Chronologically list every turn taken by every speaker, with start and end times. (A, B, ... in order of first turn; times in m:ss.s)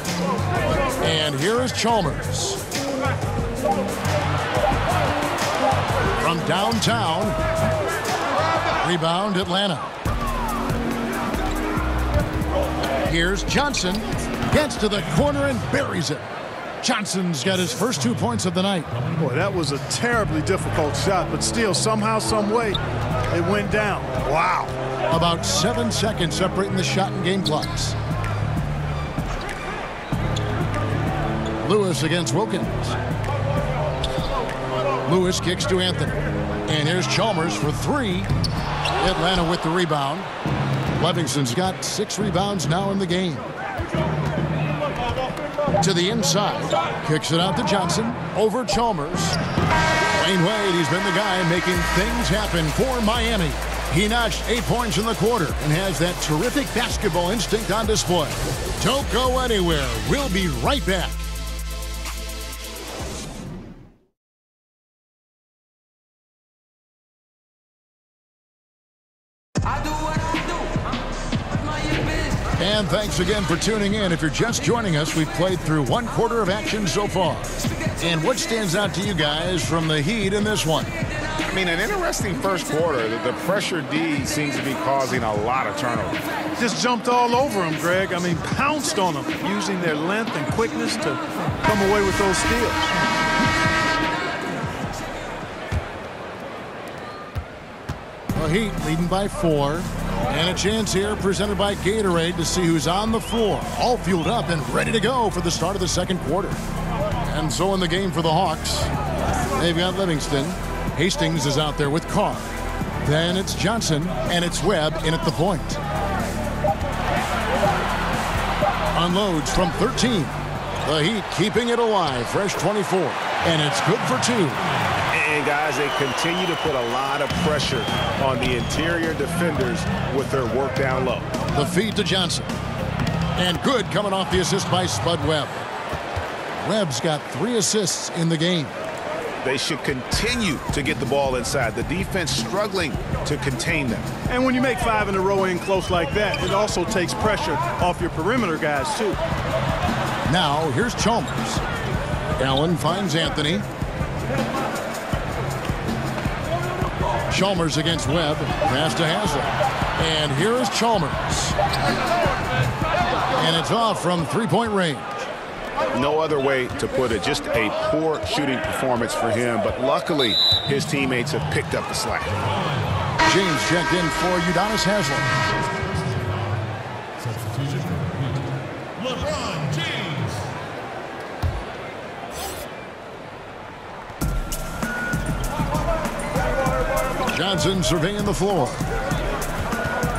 0:01.0-0:02.6 A
0:06.2-0:07.4 A
0:08.8-0:09.9 A
0:13.0-0:16.2 A
0:16.8-0:18.9 A
0:19.2-0:22.8 B
0:23.3-0:24.7 B
0:25.1-0:28.0 A
0:31.6-0:33.0 A
0:35.0-0:36.2 A
0:36.7-0:38.3 A
0:39.0-0:40.3 A
0:41.0-0:43.5 A
0:45.8-0:49.4 A
0:50.1-1:01.2 A
1:12.6-1:20.9 A
1:21.4-1:26.2 C
1:26.6-1:32.8 B
1:38.4-1:46.6 A
1:47.2-1:48.9 A
1:49.6-1:52.5 A
1:53.0-1:55.8 A
1:58.9-2:04.6 A
2:05.1-2:11.3 C
2:11.5-2:12.5 A
2:13.4-2:15.6 A
2:16.6-2:18.7 A
2:19.4-2:24.1 C
2:24.3-2:29.2 B
2:30.3-2:31.6 A
2:32.4-2:33.6 A
2:37.3-2:41.6 A
2:43.3-2:45.3 A
2:45.9-2:52.7 C
2:53.2-2:55.3 A
2:57.2-2:58.3 C
2:59.1-3:00.3 C
3:07.3-3:08.8 A